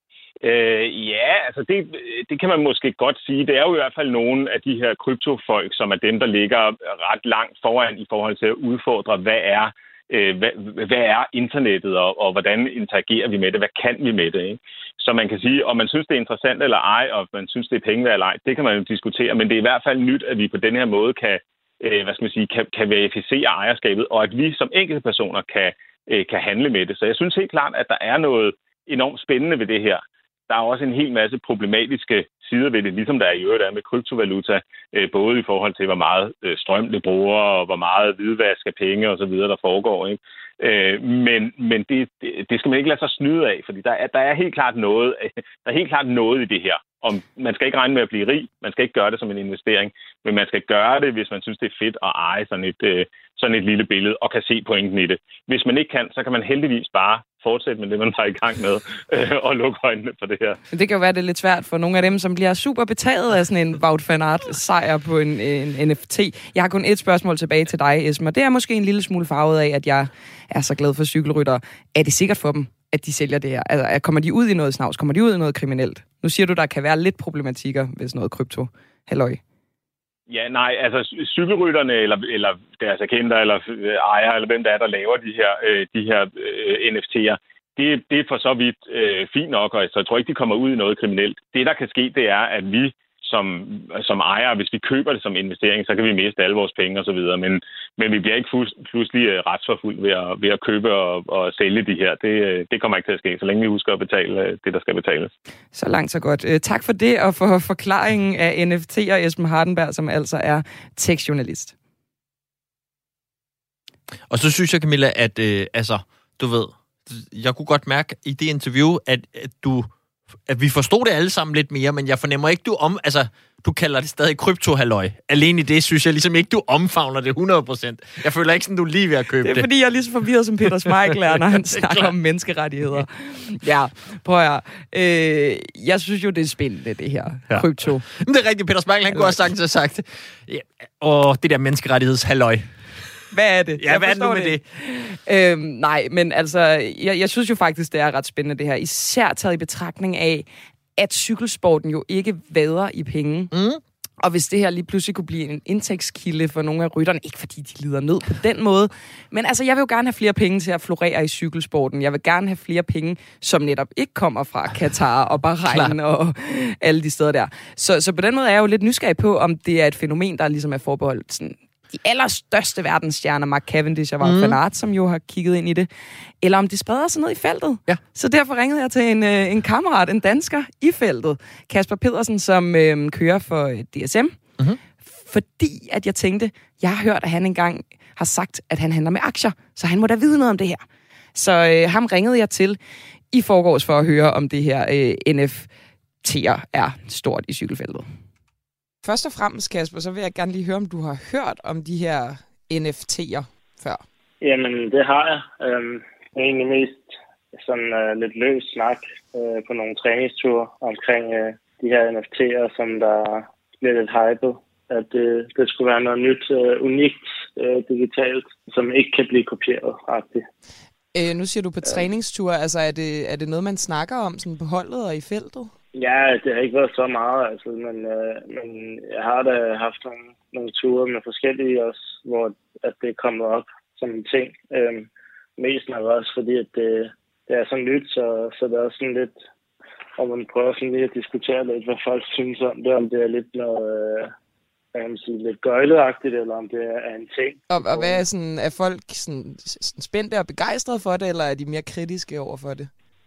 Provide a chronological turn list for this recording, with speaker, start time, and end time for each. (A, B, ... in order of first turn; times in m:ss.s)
0:00.4-1:00.6 A
1:00.7-1:19.4 B
1:20.3-1:45.3 A
1:45.7-1:51.7 B
1:54.3-1:59.9 C
2:00.5-2:09.7 C
2:09.4-2:18.1 B
2:17.5-2:22.7 C
2:19.1-2:19.4 B
2:23.3-2:30.5 B
2:23.8-2:24.6 C
2:31.0-2:33.5 B
2:33.5-2:33.8 C
2:34.2-2:55.9 B
2:45.7-2:46.0 C
2:54.2-2:54.6 C
2:56.4-3:04.4 B
3:05.2-3:10.8 B
3:11.4-3:12.8 B
3:13.3-3:15.7 B
3:16.2-3:18.1 B
3:19.0-3:24.0 B
3:24.4-3:40.4 D
3:41.1-3:45.7 B
3:46.0-3:59.4 D
4:00.2-4:04.3 D
4:05.0-4:08.2 D
4:07.7-4:12.9 B